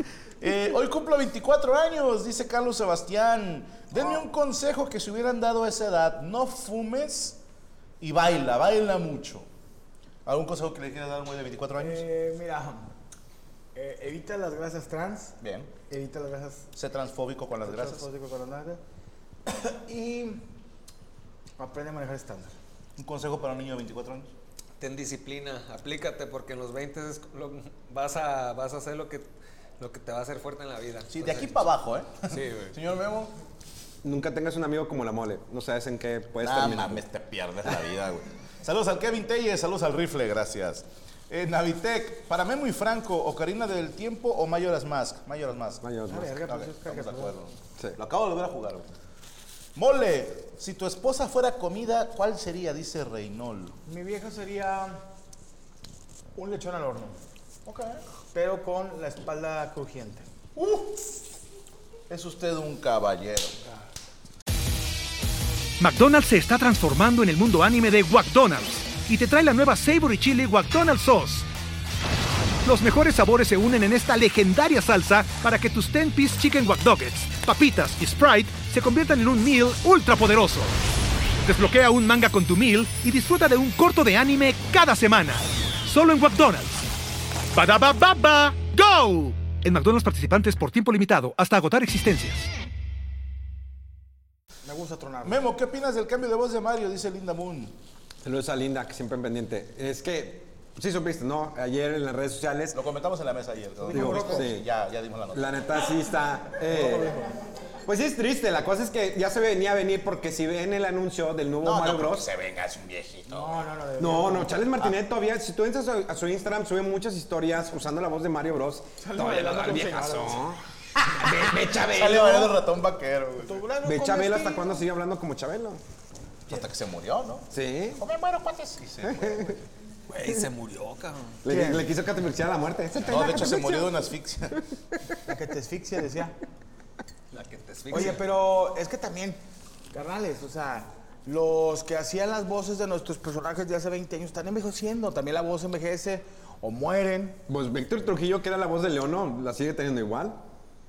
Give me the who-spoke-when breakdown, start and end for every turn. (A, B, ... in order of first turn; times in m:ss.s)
0:00.4-0:07.4 A
0:08.0-0:09.5 A
0:10.2-0:12.0 A
0:11.8-0:12.9 B
0:13.7-0:16.7 B
0:15.4-0:15.7 A
0:16.7-0:18.1 A
0:17.6-0:18.8 B
0:19.4-0:20.5 B
0:21.6-0:22.5 B
0:23.0-0:24.3 A
0:24.8-0:31.5 C
0:31.1-0:33.3 A
0:32.3-0:32.7 C
0:34.0-0:37.0 D
0:36.4-0:48.9 A
0:45.8-0:46.3 D
0:46.1-0:47.4 B
0:49.7-0:53.8 A
0:53.8-0:55.1 B
0:56.4-0:57.2 B
0:57.6-0:58.0 A
0:58.3-1:00.3 B
1:00.6-1:01.1 A
1:02.1-1:03.6 A
1:05.8-1:11.5 E
1:12.6-1:20.7 E
1:21.4-1:26.8 E
1:27.5-1:32.4 E
1:34.6-1:35.4 B
1:35.2-1:37.8 A
1:38.2-1:42.8 D
1:42.7-1:45.7 A
1:43.8-1:44.5 B
1:43.9-1:44.7 D
1:45.3-1:47.2 D
1:46.6-1:47.4 B
1:47.8-1:52.3 D
1:51.6-1:53.6 A
1:53.3-1:54.6 B
1:54.0-2:02.6 D
1:59.0-2:00.5 B
2:01.8-2:03.6 A
2:03.4-2:04.7 B
2:03.8-2:05.8 D
2:06.5-2:09.6 A
2:07.5-2:08.0 D
2:09.0-2:09.5 D
2:10.1-2:11.4 C
2:11.4-2:14.0 D
2:11.4-2:11.9 B
2:13.0-2:14.6 A
2:15.2-2:16.4 B
2:17.3-2:18.3 C
2:17.9-2:19.4 B
2:19.9-2:27.4 B
2:27.5-2:30.4 D